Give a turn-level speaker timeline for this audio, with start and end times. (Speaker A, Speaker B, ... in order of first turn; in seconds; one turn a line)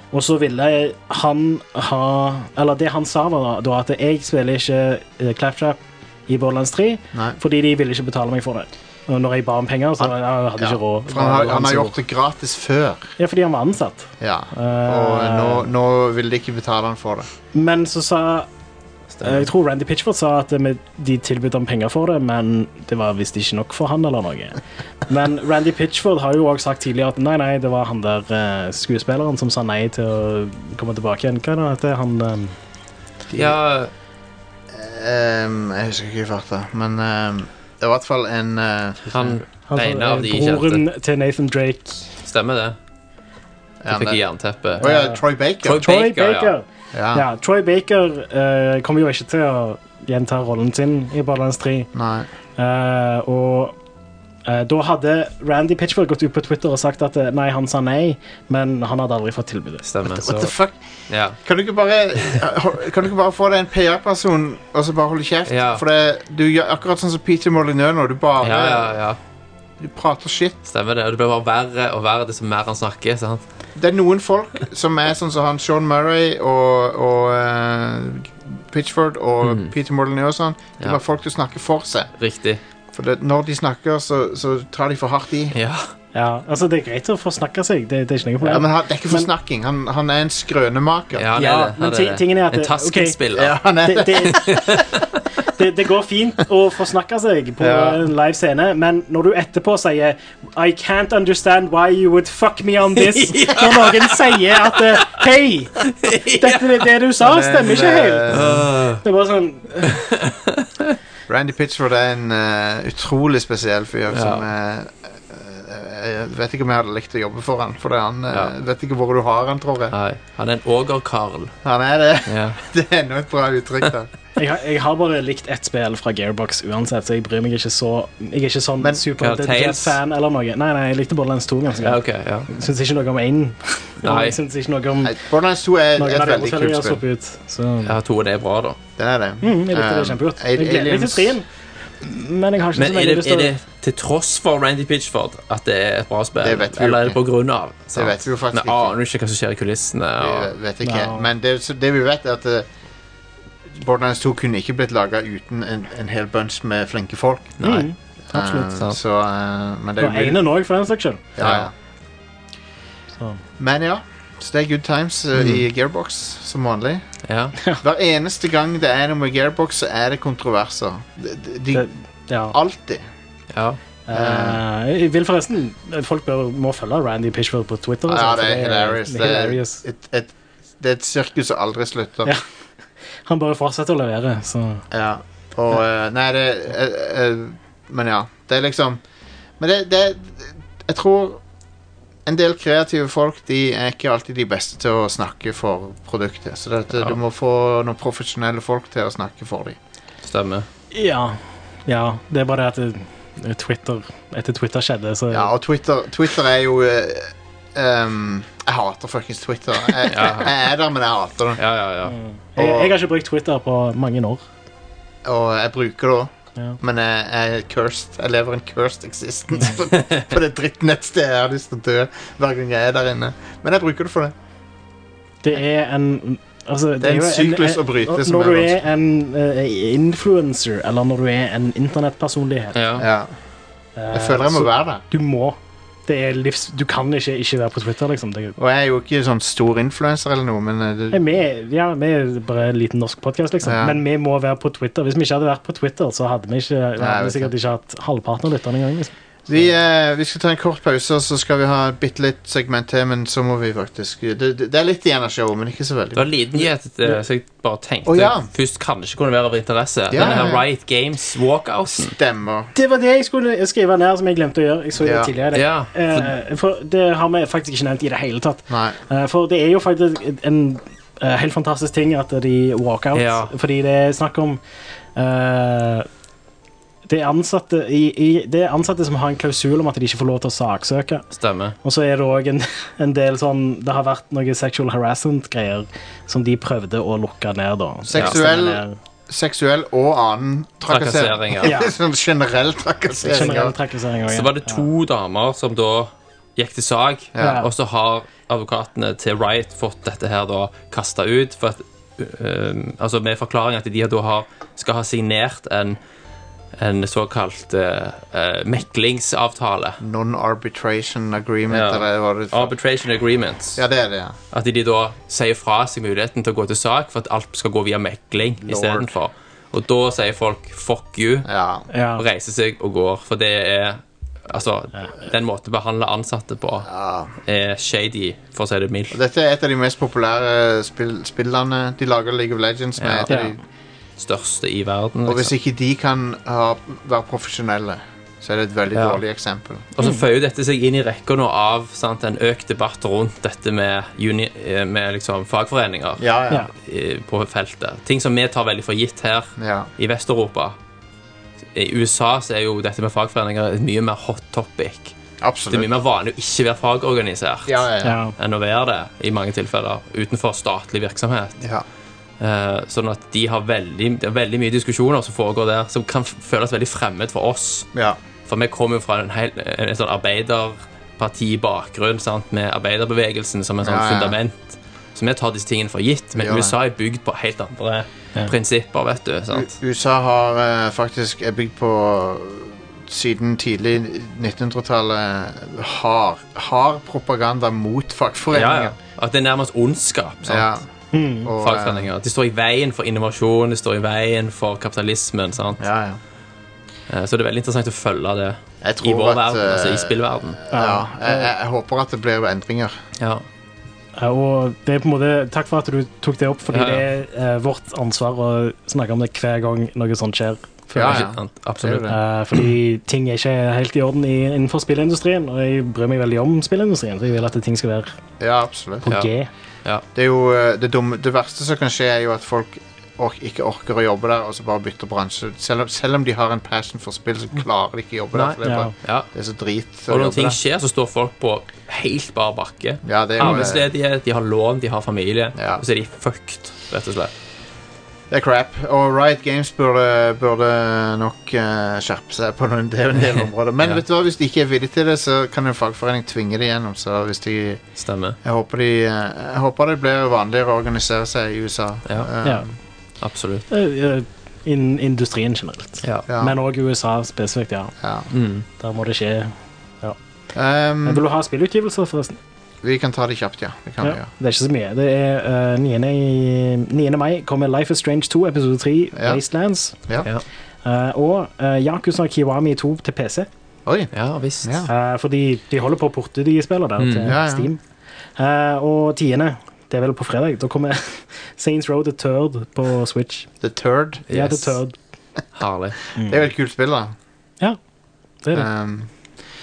Speaker A: 0.1-12.0
Speaker B: 10.0-13.2
Speaker A: 13.2-15.7
Speaker B: 14.2-17.3
Speaker A: 17.5-18.5
Speaker C: 19.2-19.5
Speaker A: 19.2-32.6
Speaker B: 33.3-33.6
Speaker C: 33.3-33.9
Speaker B: 34.7-39.4
Speaker C: 39.1-40.8
Speaker A: 39.7-42.1
Speaker C: 42.2-42.8
Speaker B: 43.8-44.2
Speaker C: 43.9-44.9
Speaker B: 44.8-45.9
Speaker A: 44.8-45.2
Speaker C: 45.6-46.5
Speaker A: 45.8-51.9
Speaker B: 46.9-47.2
Speaker B: 51.9-52.3
Speaker A: 52.6-53.8
Speaker A: 54.5-60.5
Speaker C: 59.8-60.4
Speaker B: 60.1-60.8
Speaker C: 61.1-61.4
Speaker B: 61.4-69.0
Speaker C: 65.5-65.8
Speaker C: 68.4-69.2
Speaker B: 69.8-70.6
Speaker C: 70.7-73.4
Speaker B: 73.8-82.1
Speaker C: 79.4-79.7
Speaker C: 82.2-82.6
Speaker B: 82.9-85.6
Speaker C: 85.5-85.9
Speaker A: 86.1-89.3
Speaker B: 88.4-91.3
Speaker C: 91.2-93.6
Speaker A: 91.4-93.2
Speaker B: 93.3-94.7
Speaker A: 93.8-94.6
Speaker C: 94.3-95.0
Speaker A: 95.5-108.4
Speaker B: 97.6-98.0
Speaker C: 103.0-105.2
Speaker C: 105.8-106.9
Speaker B: 107.2-108.7
Speaker C: 108.3-109.0
Speaker A: 109.0-110.0
Speaker C: 109.8-111.0
Speaker B: 111.3-120.0
Speaker C: 114.1-114.5
Speaker C: 119.9-121.6
Speaker B: 121.7-124.1
Speaker C: 122.3-122.6
Speaker A: 124.4-135.2
Speaker C: 129.2-130.0
Speaker C: 131.8-132.5
Speaker C: 134.0-134.4
Speaker B: 135.0-137.0
Speaker A: 136.0-137.9
Speaker C: 137.8-138.8
Speaker B: 139.0-141.4
Speaker A: 139.4-141.5
Speaker A: 142.0-143.5
Speaker C: 142.8-150.5
Speaker B: 146.4-147.2
Speaker B: 147.9-149.0
Speaker B: 150.2-152.7
Speaker A: 150.8-151.3
Speaker B: 153.7-157.6
Speaker C: 157.6-157.9
Speaker A: 157.6-158.7
Speaker B: 158.3-160.4
Speaker A: 160.0-161.2
Speaker B: 161.4-161.7
Speaker C: 161.4-161.7
Speaker B: 163.6-167.0
Speaker C: 165.4-165.6
Speaker C: 167.3-167.6
Speaker B: 167.8-171.9
Speaker A: 171.7-172.6
Speaker B: 172.5-173.0
Speaker C: 173.5-173.8
Speaker A: 174.1-179.8
Speaker B: 174.1-174.6
Speaker B: 178.1-182.3
Speaker A: 183.3-184.8
Speaker B: 184.9-189.0
Speaker B: 189.6-191.4
Speaker B: 192.3-199.8
Speaker C: 200.2-200.7
Speaker A: 200.9-205.5
Speaker B: 205.3-211.6
Speaker C: 210.1-210.5
Speaker C: 211.6-212.2
Speaker A: 212.1-214.4
Speaker B: 212.6-212.9
Speaker B: 215.2-224.3
Speaker A: 225.4-232.8
Speaker B: 227.0-228.8
Speaker C: 232.7-233.1
Speaker B: 233.0-233.3
Speaker A: 234.0-238.6
Speaker B: 234.1-235.0
Speaker B: 238.6-241.2
Speaker A: 241.1-249.1
Speaker B: 243.6-244.0
Speaker B: 247.0-247.5
Speaker B: 249.5-256.3
Speaker C: 256.1-262.2
Speaker B: 258.1-258.5
Speaker B: 260.1-260.6
Speaker A: 260.2-260.5
Speaker B: 261.9-262.7
Speaker A: 262.8-274.6
Speaker B: 265.0-265.3
Speaker C: 265.5-266.3
Speaker B: 268.7-269.0
Speaker C: 273.1-273.5
Speaker A: 275.1-276.1
Speaker A: 277.1-281.2
Speaker C: 281.3-281.8
Speaker A: 281.8-289.0
Speaker B: 288.1-293.7
Speaker C: 290.9-291.8
Speaker A: 291.6-291.9
Speaker A: 293.2-294.8
Speaker C: 294.3-306.0
Speaker B: 297.4-297.6
Speaker A: 297.4-297.7
Speaker C: 306.8-310.0
Speaker B: 310.0-312.7
Speaker C: 311.7-313.8
Speaker B: 313.8-314.4
Speaker C: 314.5-321.5
Speaker B: 318.7-319.1
Speaker B: 321.4-321.9
Speaker A: 321.9-322.2
Speaker C: 322.2-326.9
Speaker B: 326.9-327.3
Speaker C: 327.4-329.2
Speaker B: 329.1-333.6
Speaker C: 333.0-333.4
Speaker A: 333.3-333.6
Speaker C: 334.2-335.5
Speaker B: 335.3-339.9
Speaker C: 338.9-339.2
Speaker C: 339.9-350.8
Speaker B: 346.2-346.7
Speaker B: 349.6-349.9
Speaker C: 351.7-355.2
Speaker B: 355.4-355.9
Speaker C: 355.7-361.6
Speaker B: 357.7-358.2
Speaker A: 358.0-358.3
Speaker B: 361.6-361.9
Speaker C: 362.4-367.9
Speaker C: 368.5-379.7
Speaker B: 373.8-374.4
Speaker B: 376.4-376.7
Speaker B: 379.5-388.9
Speaker C: 388.5-390.7
Speaker B: 390.4-390.8
Speaker A: 391.1-391.5
Speaker B: 391.4-392.1
Speaker C: 391.6-395.8
Speaker B: 395.8-396.2
Speaker C: 397.1-400.6
Speaker B: 398.8-403.0
Speaker A: 400.7-401.5
Speaker C: 403.2-403.4
Speaker A: 404.2-411.3
Speaker C: 406.7-407.1
Speaker B: 410.9-412.2
Speaker C: 411.0-412.1
Speaker A: 412.1-418.2
Speaker B: 418.4-419.1
Speaker A: 419.0-419.5
Speaker B: 420.1-430.6
Speaker C: 428.3-429.3
Speaker A: 428.6-428.9
Speaker C: 430.1-437.3
Speaker B: 433.0-433.9
Speaker B: 435.6-435.8
Speaker B: 438.3-447.8
Speaker C: 443.3-444.0
Speaker C: 448.0-448.4
Speaker B: 448.4-452.7
Speaker C: 453.2-453.7
Speaker A: 453.7-457.9
Speaker B: 456.3-456.6
Speaker B: 458.0-458.3
Speaker C: 458.3-458.7
Speaker A: 458.8-460.2
Speaker B: 460.5-461.2
Speaker A: 461.1-462.4
Speaker B: 462.8-464.3
Speaker A: 464.0-470.0
Speaker B: 469.1-469.4
Speaker A: 470.8-473.5
Speaker B: 473.9-474.1
Speaker C: 474.1-474.8
Speaker B: 474.6-474.9
Speaker A: 474.9-477.8
Speaker C: 477.0-477.4
Speaker B: 477.2-477.7
Speaker A: 478.4-483.5
Speaker B: 483.6-484.2
Speaker C: 484.3-484.8
Speaker A: 484.3-484.9
Speaker C: 485.6-486.0
Speaker A: 486.2-486.4
Speaker B: 486.2-487.1
Speaker A: 488.4-488.7
Speaker B: 488.5-489.1